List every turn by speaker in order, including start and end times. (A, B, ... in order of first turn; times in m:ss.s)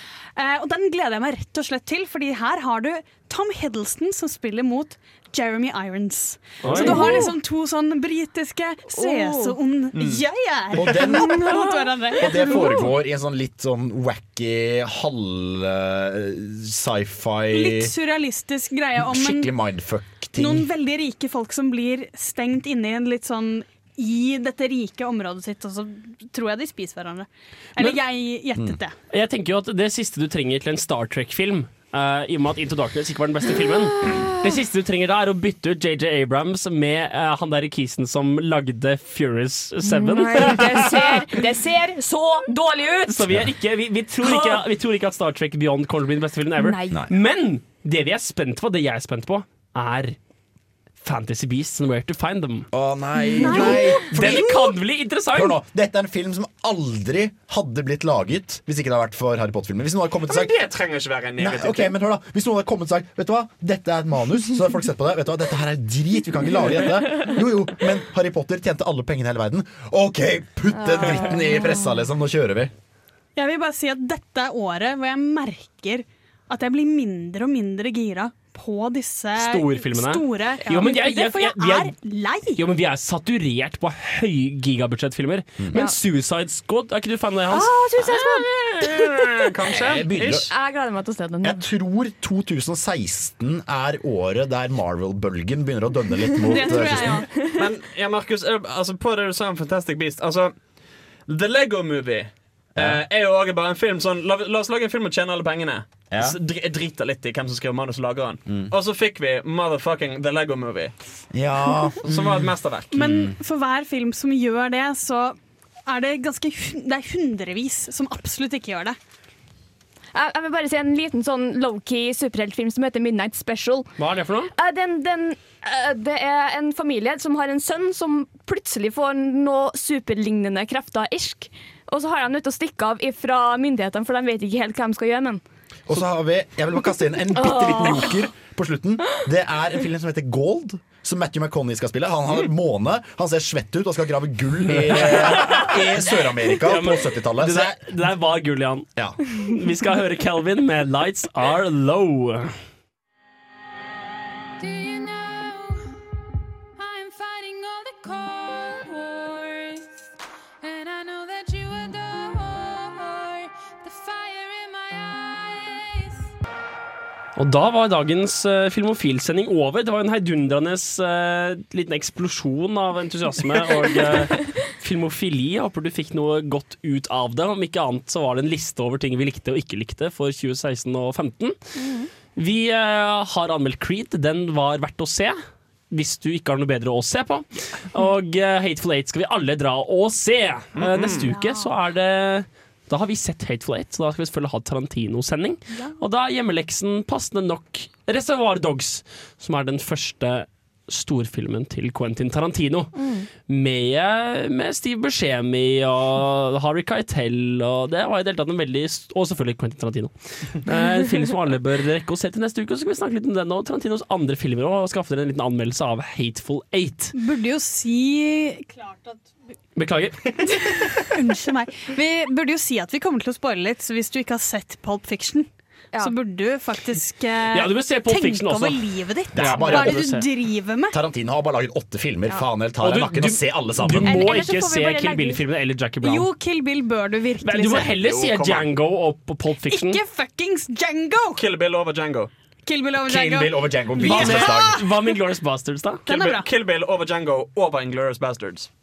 0:00.4-0:12.9 A
0:06.6-0:07.2 B
0:06.7-0:07.4 C
0:08.9-0:09.6 C
0:09.9-0:10.2 D
0:10.8-0:17.9 E
0:11.2-0:12.8 C
0:17.5-0:19.5 A
0:19.0-0:20.6 E
0:20.4-0:28.9 A
0:29.1-0:41.0 B
0:39.8-0:43.3 C
0:43.1-0:50.2 B
0:44.2-0:44.6 C
0:46.6-0:47.1 C
0:51.0-0:52.7 B
0:52.7-0:54.6 E
0:53.4-0:54.0 C
0:53.4-0:54.0 A
0:53.5-0:55.6 B
0:55.3-1:00.6 E
1:00.3-1:01.9 D
1:01.4-1:12.7 E
1:10.7-1:12.0 C
1:13.4-1:22.6 A
1:19.4-1:21.9 B
1:22.6-1:28.2 B
1:27.5-1:28.9 C
1:28.1-1:30.5 D
1:29.8-1:30.5 E
1:30.5-1:31.6 C
1:31.4-1:37.2 E
1:36.4-1:37.3 A
1:36.6-1:37.3 C
1:37.4-1:40.6 D
1:41.3-1:50.9 D
1:42.8-1:43.0 E
1:46.1-1:46.4 E
1:51.3-1:53.3 E
1:52.0-1:52.9 D
1:52.9-1:59.0 A
2:00.1-2:04.0 C
2:04.0-2:04.5 B
2:04.5-2:15.4 C
2:15.9-2:27.8 E
2:17.3-2:18.3 C
2:24.7-2:26.0 B
2:26.5-2:28.9 B
2:29.5-2:32.5 B
2:34.7-2:35.8 A
2:36.8-2:39.8 A
2:40.6-2:45.9 A
2:47.4-3:01.7 B
3:01.8-3:02.1 C
3:02.3-3:05.4 B
3:05.9-3:37.1 B
3:10.8-3:11.3 D
3:11.2-3:11.8 C
3:15.7-3:16.0 C
3:23.0-3:23.3 C
3:37.1-3:39.3 A
3:39.8-3:40.4 B
3:40.4-3:51.0 A
3:47.5-3:48.8 B
3:49.3-3:50.0 E
3:49.3-3:50.2 B
3:50.9-3:54.2 E
3:52.8-3:56.3 B
3:54.0-3:55.4 C
3:56.0-3:58.0 A
3:57.4-4:00.0 B
3:57.9-3:58.7 D
3:59.7-4:01.4 A
4:01.4-4:02.3 D
4:02.6-4:04.8 A
4:03.0-4:04.8 E
4:04.0-4:06.0 B
4:06.1-4:06.5 A
4:06.1-4:08.7 D